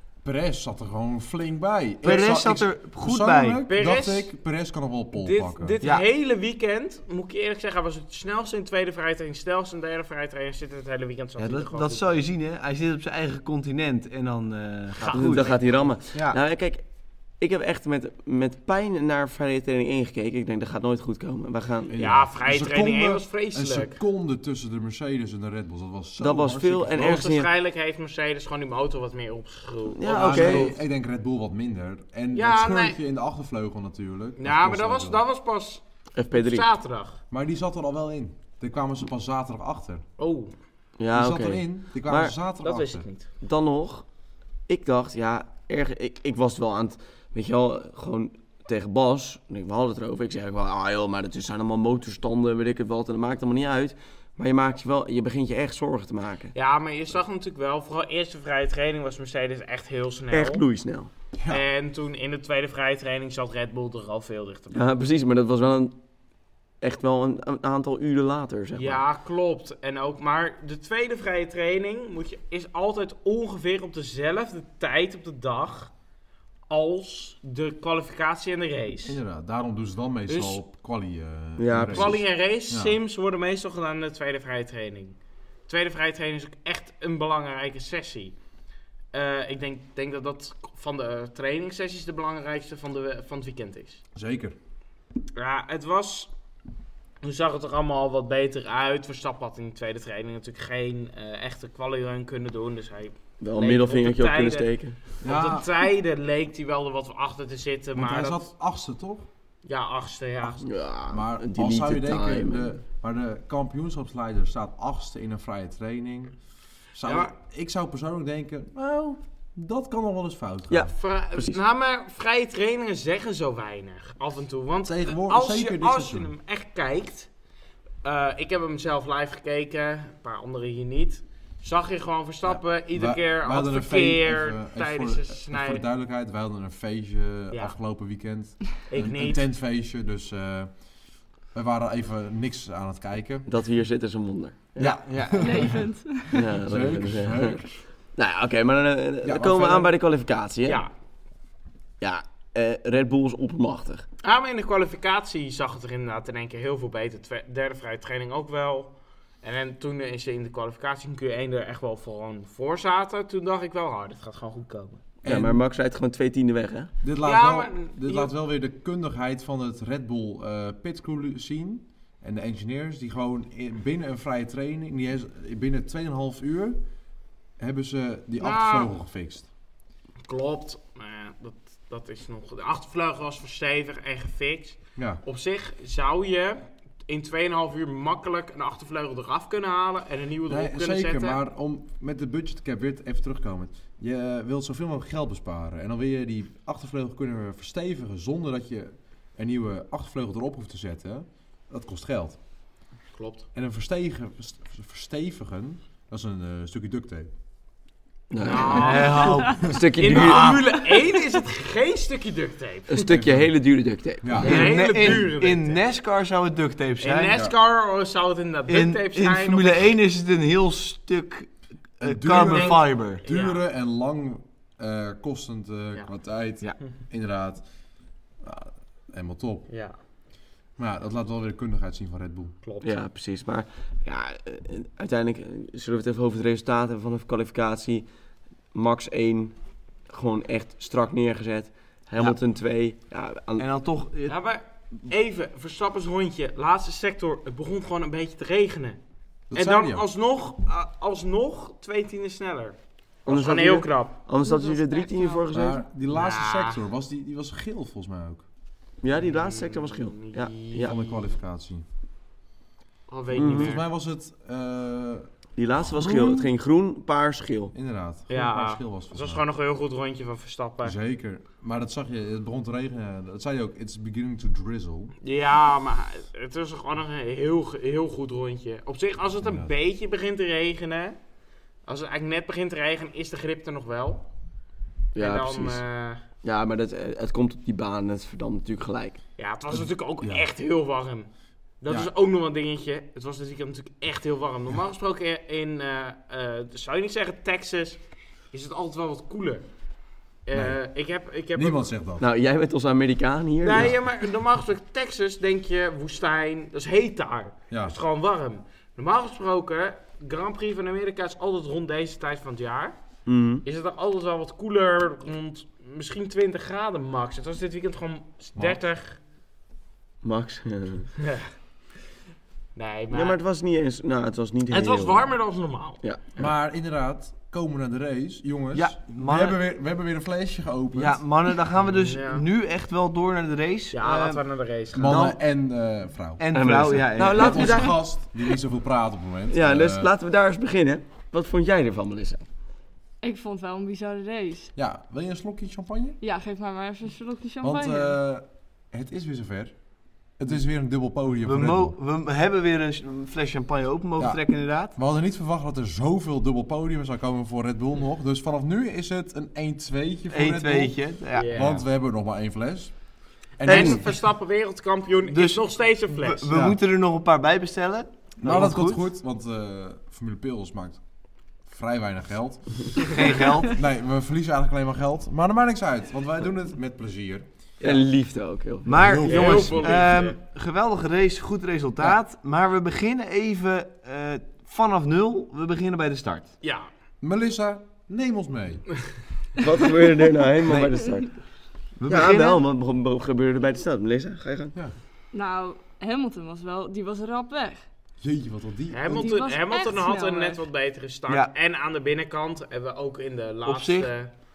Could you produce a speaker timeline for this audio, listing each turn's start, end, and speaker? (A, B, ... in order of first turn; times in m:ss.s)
0:00.2-0:05.8 A
0:02.0-0:03.6 B
0:03.7-0:04.3 C
0:05.2-0:12.0 C
0:11.4-0:15.5 B
0:15.0-0:15.7 C
0:15.1-0:16.8 D
0:16.1-0:16.4 B
0:17.4-0:22.2 D
0:21.9-0:27.2 A
0:22.0-0:24.0 C
0:26.2-0:27.5 D
0:26.9-0:30.7 C
0:29.9-0:30.7 D
0:30.0-0:35.2 A
0:32.3-0:33.0 C
0:34.4-0:37.2 C
0:36.2-0:36.6 D
0:37.3-0:40.0 A
0:40.2-0:40.5 C
0:41.0-0:42.3 D
0:41.1-0:43.0 A
0:42.6-0:43.3 C
0:43.4-0:44.0 D
0:44.7-0:56.5 D
0:56.5-1:00.6 C
1:00.3-1:01.1 D
1:01.4-1:01.6 A
1:01.5-1:04.9 C
1:04.7-1:06.0 D
1:06.8-1:09.0 D
1:08.7-1:15.9 C
1:16.7-1:19.2 C
1:19.0-1:23.0 A
1:20.3-1:20.6 C
1:21.6-1:22.2 D
1:21.9-1:25.2 C
1:25.7-1:28.3 C
1:29.1-1:34.0 C
1:34.1-1:34.6 A
1:35.4-1:36.3 C
1:37.2-1:48.5 C
1:43.4-1:45.0 D
1:45.2-1:45.7 A
1:48.0-1:49.3 A
1:49.6-1:50.6 C
1:50.6-1:52.6 D
1:51.1-1:56.3 A
1:56.9-2:00.9 A
1:57.0-1:57.3 C
2:00.7-2:01.6 D
2:00.9-2:07.3 C
2:04.8-2:06.3 A
2:08.0-2:15.8 C
2:12.4-2:20.7 A
2:18.9-2:19.4 C
2:21.5-2:23.5 A
2:23.4-2:25.0 D
2:24.8-2:25.8 A
2:24.8-2:25.5 B
2:25.3-2:26.5 E
2:26.3-2:27.6 D
2:26.3-2:27.8 A
2:28.2-2:30.8 D
2:29.2-2:29.9 A
2:30.6-2:30.9 C
2:32.0-2:34.0 D
2:34.2-2:45.0 C
2:45.2-2:45.6 A
2:45.2-2:46.9 D
2:47.0-2:56.8 A
2:47.2-2:48.3 C
2:57.6-2:59.5 A
2:58.4-2:58.9 C
3:00.2-3:11.4 C
3:05.0-3:05.2 A
3:10.4-3:22.4 A
3:23.1-3:23.4 C
3:23.5-3:27.3 A
3:28.3-3:31.1 D
3:28.4-3:33.1 C
3:28.6-3:30.5 B
3:32.9-3:34.6 D
3:33.0-3:33.5 A
3:34.2-3:35.2 A
3:34.4-3:35.8 C
3:34.4-3:37.3 B
3:37.0-3:39.9 C
3:37.3-3:37.5 A
3:38.7-3:43.2 B
3:42.0-3:47.6 A
3:42.4-3:43.6 C
3:48.4-3:49.7 A
3:49.7-3:50.0 C
3:50.8-3:52.5 A
3:52.6-3:53.0 C
3:52.8-3:58.1 D
3:58.7-3:59.5 D
4:00.1-4:03.6 D
4:03.6-4:04.4 B
4:04.3-4:09.0 C
4:09.5-4:10.0 A
4:09.5-4:14.2 C
4:13.2-4:15.8 D
4:14.4-4:15.5 E
4:15.5-4:18.4 A
4:16.1-4:16.8 C
4:19.0-4:20.9 D
4:19.2-4:21.3 C
4:20.8-4:21.9 A
4:23.1-4:23.8 C
4:23.3-4:26.5 A
4:23.3-4:23.7 D
4:25.6-4:27.7 D
4:27.7-4:29.4 A
4:28.3-4:31.0 C
4:30.8-4:35.1 A
4:35.2-4:41.2 C
4:39.4-4:39.7 A
4:41.8-4:44.2 C
4:45.1-4:45.8 D
4:45.2-4:46.2 C
4:46.4-4:49.2 D
4:49.4-4:51.3 C
4:49.7-4:50.5 A
4:51.8-4:58.0 C
4:51.9-4:52.1 A
4:58.5-4:59.6 C
5:00.4-5:01.9 C
5:00.5-5:00.8 A
5:01.5-5:02.3 A
5:02.2-5:03.9 D
5:03.6-5:13.0 C
5:07.7-5:08.0 A
5:13.2-5:13.6 D
5:13.6-5:19.2 C
5:20.2-5:21.1 D
5:21.2-5:21.5 C
5:22.8-5:23.4 C
5:23.1-5:25.3 D
5:24.7-5:26.0 C
5:26.4-5:31.2 A
5:28.7-5:29.6 B
5:30.9-5:34.4 B
5:31.9-5:32.4 C
5:33.9-5:35.2 C
5:34.9-5:36.4 A
5:35.0-5:35.4 B
5:36.4-5:37.8 B
5:36.5-5:38.0 D
5:37.3-5:40.1 A
5:39.5-5:42.4 D
5:43.2-5:44.7 E
5:44.8-5:46.2 A
5:46.2-5:48.2 E
5:47.6-5:49.7 A
5:50.4-5:51.9 A
5:51.4-5:55.0 B
5:54.9-6:02.9 A
6:00.3-6:01.8 B
6:01.3-6:01.8 C
6:03.6-6:04.1 A
6:03.6-6:06.5 C
6:03.7-6:04.0 D
6:05.2-6:09.0 B
6:06.5-6:06.8 A
6:08.4-6:11.0 A
6:11.6-6:17.4 A
6:13.0-6:13.8 B
6:17.8-6:19.0 D
6:18.8-6:26.5 B
6:18.9-6:20.0 A
6:19.2-6:20.4 C
6:26.6-6:26.9 C
6:27.2-6:28.8 A
6:29.6-6:31.3 D
6:30.6-6:31.0 A
6:32.0-6:32.6 B
6:32.1-6:34.7 D
6:35.3-6:37.8 E
6:38.2-6:39.3 A
6:38.9-6:44.3 C
6:39.1-6:40.6 E
6:43.6-6:44.1 B